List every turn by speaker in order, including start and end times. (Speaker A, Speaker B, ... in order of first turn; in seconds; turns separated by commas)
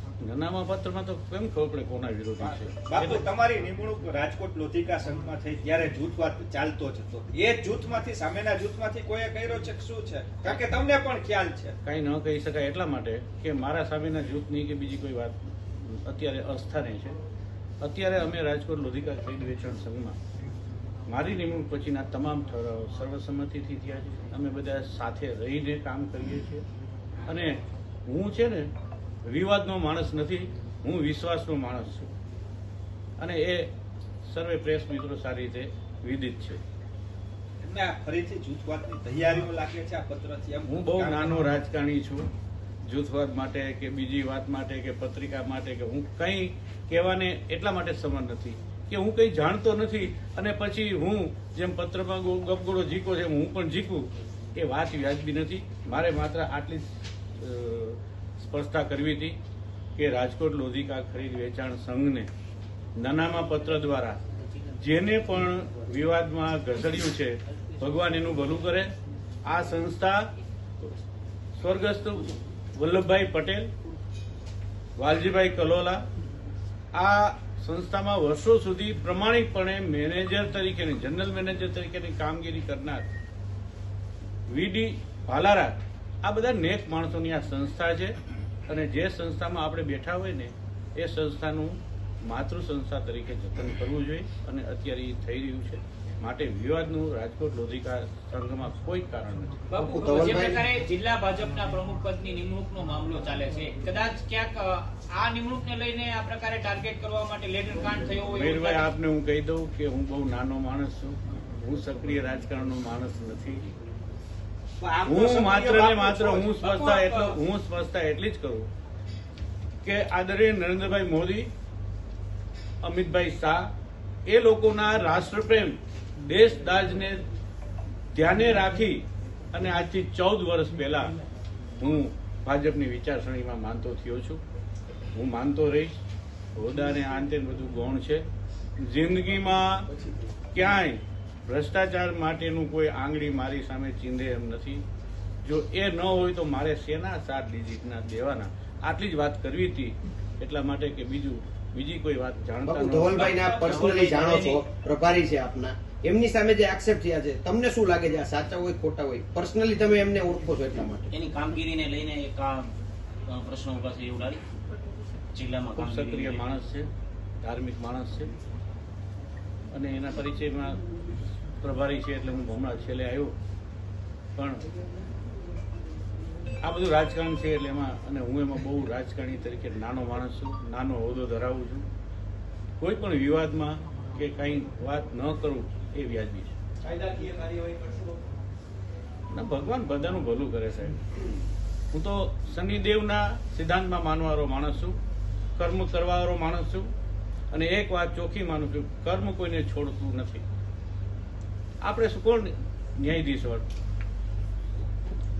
Speaker A: 0.2-3.2, Speaker B: 2.4-11.8, Speaker A: 11.8-17.2, Speaker A: 17.8-20.2, Speaker A: 21.1-26.6, Speaker A: 27.3-28.7, Speaker A: 29.3-32.1, Speaker A: 33.2-33.7, Speaker A: 34.3-36.6, Speaker B: 37.6-41.4, Speaker A: 40.7-42.3, Speaker A: 42.9-59.4, Speaker A: 60.0-62.3, Speaker A: 63.0-64.2, Speaker A: 64.7-68.9, Speaker A: 69.5-70.3, Speaker A: 71.6-73.7, Speaker A: 75.0-76.0, Speaker A: 76.9-83.1, Speaker A: 84.5-88.2, Speaker A: 88.7-99.6, Speaker C: 99.7-108.9, Speaker D: 99.8-100.6, Speaker A: 108.3-113.7, Speaker B: 114.8-116.8, Speaker A: 115.0-118.7, Speaker C: 116.7-117.3, Speaker A: 119.8-121.5, Speaker A: 122.8-123.7, Speaker A: 124.3-127.3, Speaker A: 128.1-131.2, Speaker A: 131.8-134.4, Speaker A: 135.2-136.0, Speaker A: 136.6-138.2, Speaker A: 138.8-139.9, Speaker A: 140.5-144.8, Speaker A: 145.4-153.7, Speaker D: 152.7-161.1, Speaker E: 161.1-162.7, Speaker E: 163.3-164.4, Speaker E: 165.3-166.4, Speaker A: 165.7-166.9, Speaker A: 167.4-168.3, Speaker A: 169.7-170.8, Speaker A: 171.6-173.3, Speaker A: 174.4-174.6, Speaker A: 176.6-181.8, Speaker A: 182.8-186.5, Speaker B: 186.9-188.0, Speaker A: 189.3-191.1, Speaker A: 191.9-195.0, Speaker A: 195.6-196.9, Speaker A: 197.5-200.4, Speaker A: 201.8-203.7